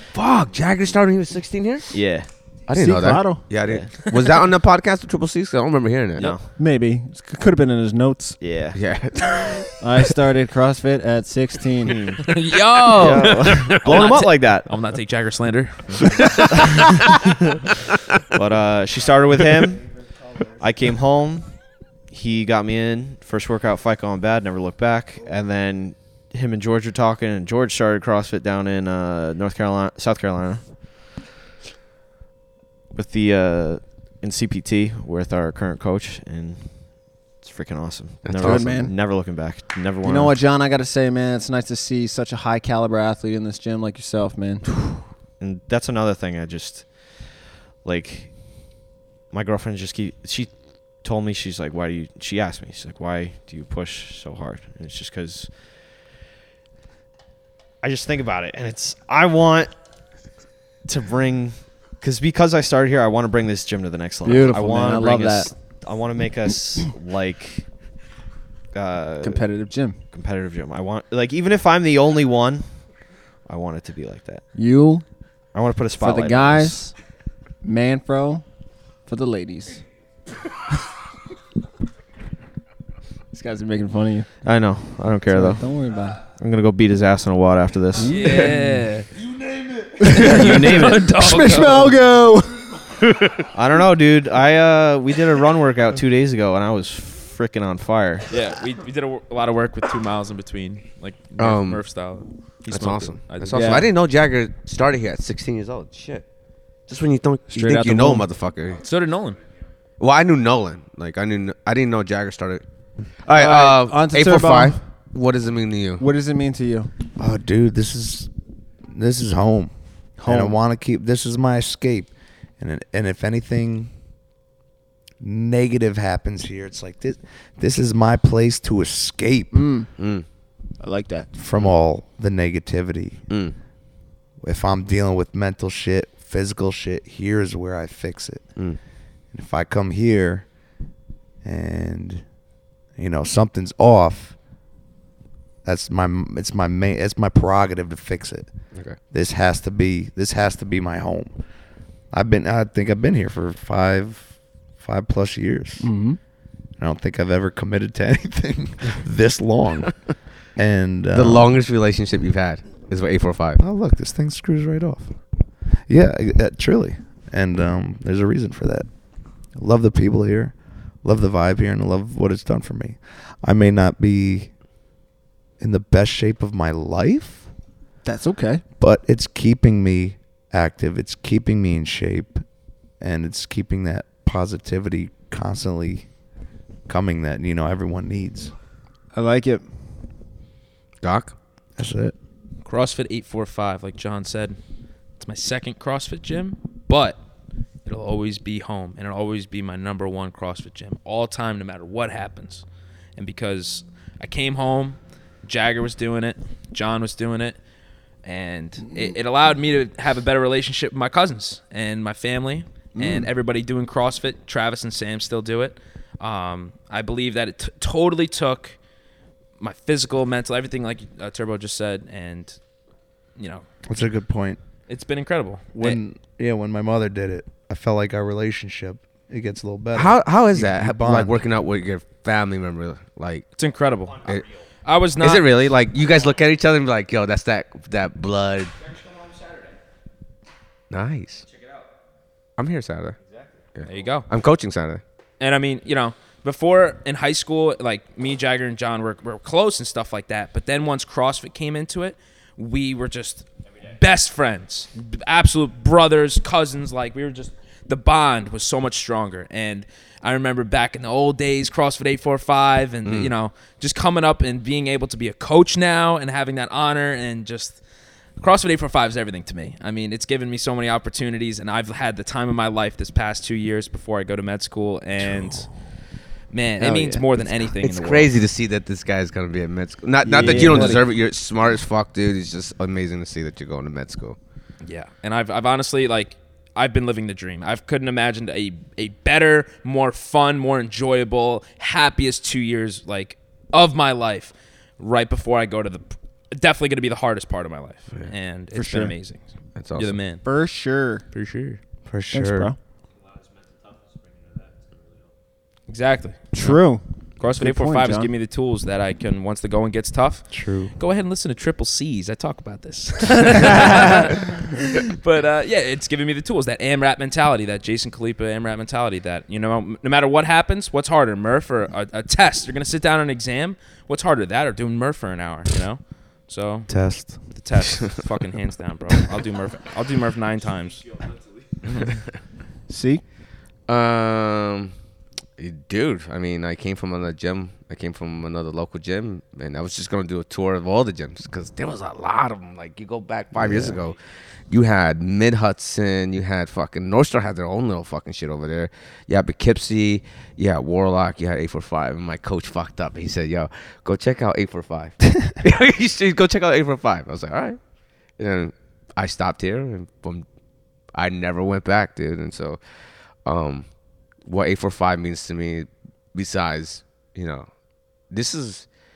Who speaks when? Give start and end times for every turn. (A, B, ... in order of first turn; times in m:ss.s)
0:00.1-0:06.3 A
0:01.9-0:02.3 B
0:02.7-0:03.5 C
0:03.6-0:04.1 B
0:06.2-0:06.5 B
0:06.5-0:08.4 C
0:08.4-0:08.8 B
0:08.7-0:09.8 A
0:09.8-0:12.0 C
0:11.8-0:12.3 B
0:12.2-0:16.8 D
0:12.9-0:14.7 B
0:13.6-0:13.8 A
0:16.2-0:16.5 A
0:18.3-0:19.9 B
0:20.6-0:31.0 B
0:32.9-0:40.4 B
0:38.2-0:38.8 A
0:38.4-0:38.9 C
0:40.0-0:44.7 C
0:45.4-0:48.7 B
0:49.3-0:55.8 B
0:57.8-0:59.7 B
1:00.8-1:07.7 B
1:04.2-1:05.5 C
1:08.7-1:09.5 B
1:09.2-1:10.0 C
1:10.1-1:12.8 B
1:13.4-1:14.4 B
1:14.5-1:15.0 C
1:15.5-1:16.9 B
1:16.0-1:16.9 C
1:17.6-1:18.4 C
1:19.0-1:19.8 C
1:23.3-1:24.3 C
1:24.4-1:25.7 B
1:25.3-1:26.2 C
1:26.2-1:28.5 B
1:28.0-1:28.8 C
1:28.0-1:29.1 D
1:30.0-1:32.8 C
1:30.1-1:31.1 B
1:30.1-1:31.9 D
1:33.0-1:33.5 A
1:33.5-1:38.3 B
1:38.3-1:43.8 D
1:41.4-1:41.9 A
1:42.7-1:46.2 A
1:43.5-1:43.9 C
1:46.9-1:48.8 A
1:47.5-1:48.3 C
1:48.8-1:49.4 D
1:50.0-1:52.6 A
1:53.2-1:56.0 A
1:53.3-1:54.8 C
1:56.0-1:56.9 C
1:57.2-1:58.3 E
1:58.9-2:03.9 E
2:00.2-2:00.5 C
2:05.2-2:09.7 E
2:09.5-2:09.9 C
2:10.0-2:10.2 A
2:10.8-2:11.3 C
2:11.3-2:13.2 E
2:13.3-2:13.6 A
2:14.4-2:18.5 E
2:19.3-2:20.5 E
2:21.4-2:22.2 E
2:23.0-2:24.4 E
2:25.6-2:28.5 E
2:29.1-2:31.4 E
2:32.1-2:35.9 E
2:35.8-2:36.2 C
2:36.8-2:41.5 E
2:41.1-2:43.6 A
2:43.6-2:45.2 E
2:45.9-2:48.9 E
2:49.5-2:54.5 E
2:55.6-2:57.5 E
2:58.0-2:58.6 C
2:58.8-3:02.4 E
3:03.0-3:06.1 E
3:06.9-3:08.5 E
3:09.1-3:09.6 C
3:11.0-3:11.3 A
3:11.8-3:12.2 E
3:12.6-3:14.6 D
3:15.2-3:17.2 D
3:17.8-3:22.6 D
3:23.2-3:27.6 D
3:28.2-3:38.8 D
3:33.0-3:33.3 C
3:39.6-3:42.6 D
3:43.4-3:43.6 D
3:43.9-3:44.6 E
3:44.9-3:46.0 D
3:45.7-3:51.4 E
3:49.9-3:53.4 A
3:53.6-3:54.3 D
3:54.8-3:55.5 D
3:55.2-3:58.7 A
4:00.9-4:01.5 A
4:02.6-4:03.2 A
4:03.8-4:05.0 A
4:03.8-4:04.3 D
4:05.4-4:27.8 D
4:23.0-4:23.3 A
4:28.4-4:35.7 D
4:36.5-4:38.3 D
4:36.8-4:37.2 C
4:37.8-4:44.4 A
4:40.2-4:41.1 C
4:44.8-4:59.4 D
4:58.7-4:59.1 C
4:59.8-5:00.2 A
4:59.9-5:00.4 D
5:00.4-5:01.2 C
5:01.3-5:01.8 D
5:02.0-5:02.7 E
5:02.3-5:02.8 C
5:05.9-5:06.5 D
5:06.5-5:08.3 C
5:07.4-5:31.2 D
5:10.5-5:10.9 E
5:26.9-5:27.4 E
5:31.8-5:32.2 D
5:32.9-5:33.2 C
5:33.9-5:34.9 A
5:35.6-5:44.2 A
5:43.5-5:44.0 E
5:44.7-5:57.8 A
5:58.4-6:00.4 A
6:01.1-6:02.8 A
6:03.4-6:03.9 A
6:04.4-6:07.7 A
6:08.3-6:08.9 A